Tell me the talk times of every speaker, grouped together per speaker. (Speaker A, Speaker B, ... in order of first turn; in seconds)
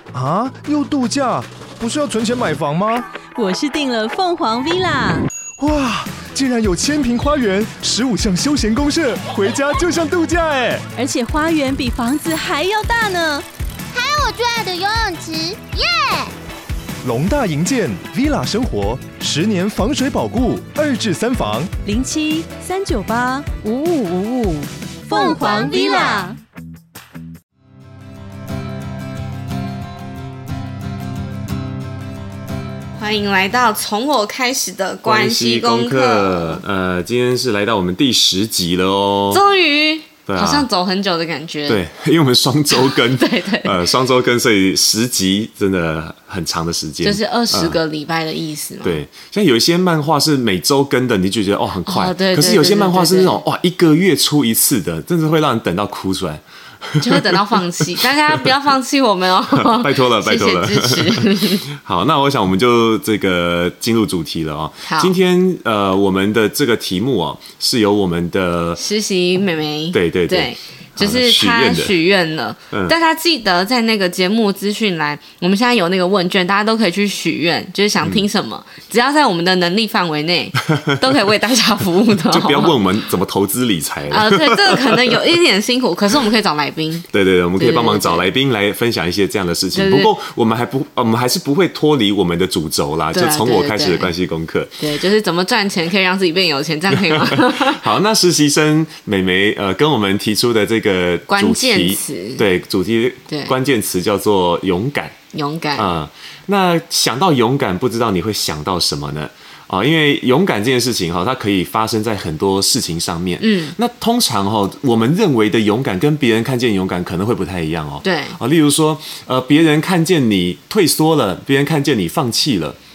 Speaker A: 0.1-3.0, 5.6-10.8, 17.0-21.7
Speaker B: 3.4-5.3, 10.9-13.4, 21.8-26.4
Speaker C: 13.9-16.3, 25.1-26.3
Speaker D: 33.0-36.6, 39.3-41.8, 42.7-43.8, 47.0-49.0, 51.9-53.4, 57.0-61.7, 64.8-65.1, 68.8-82.8, 84.1-87.0, 87.6-88.2, 89.7-90.1, 93.1-94.1, 94.8-97.8, 101.3-102.5, 103.3-103.5, 105.3-105.9, 113.4-113.8, 118.0-118.4
Speaker E: 35.0-39.4, 40.3-40.7, 41.7-47.8, 48.8-58.5, 59.5-68.8, 69.9-71.9, 82.3-85.2, 87.1-94.7, 96.9-105.2, 105.8-122.8